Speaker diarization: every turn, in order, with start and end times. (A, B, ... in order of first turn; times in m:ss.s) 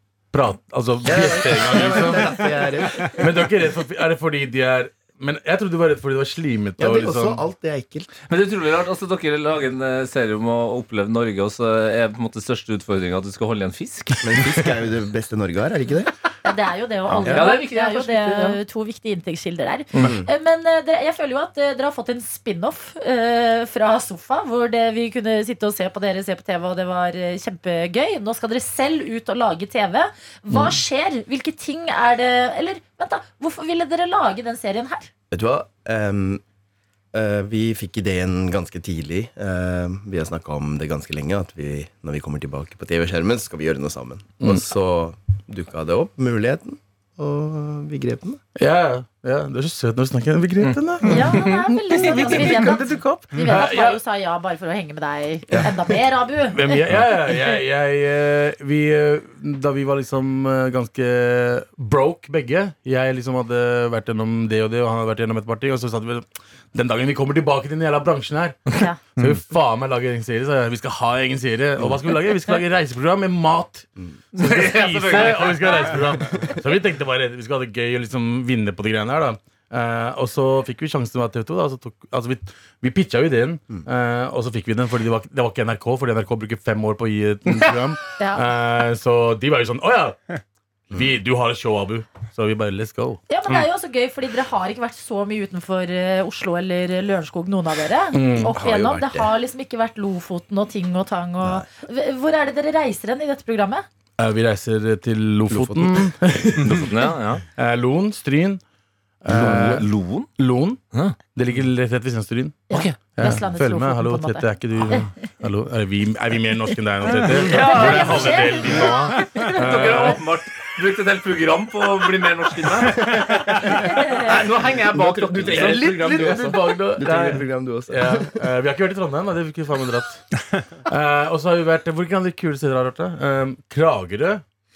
0:00.3-0:07.4 A
0:01.0-0:03.2 B
0:06.8-0:08.1 B
0:08.3-0:14.4 C
0:14.2-0:16.1 B
0:16.4-0:35.1 D
0:17.3-0:18.6 C
0:20.0-0:20.3 B
0:35.3-0:36.4 B
0:37.1-0:48.4 B
0:48.6-0:54.0 A
0:51.1-0:56.8 D
0:56.5-1:30.2 A
1:14.3-1:15.9 C
1:28.2-1:28.5 D
1:30.9-1:33.2 A
1:33.3-1:43.9 D
1:38.1-1:38.6 A
1:38.3-1:39.3 B
1:41.4-1:41.7 B
1:44.2-1:46.9 A
1:45.5-1:46.1 B
1:46.7-1:47.4 C
1:47.5-1:48.6 A
1:49.2-2:00.2 A
1:49.3-1:50.3 C
1:50.9-1:51.2 C
1:52.7-1:55.1 D
1:52.7-1:53.0 C
1:57.1-2:00.2 D
1:57.3-1:58.6 C
1:59.4-2:03.2 C
2:03.8-2:06.6 C
2:04.3-2:08.4 B
2:05.4-2:10.2 A
2:10.9-2:14.4 A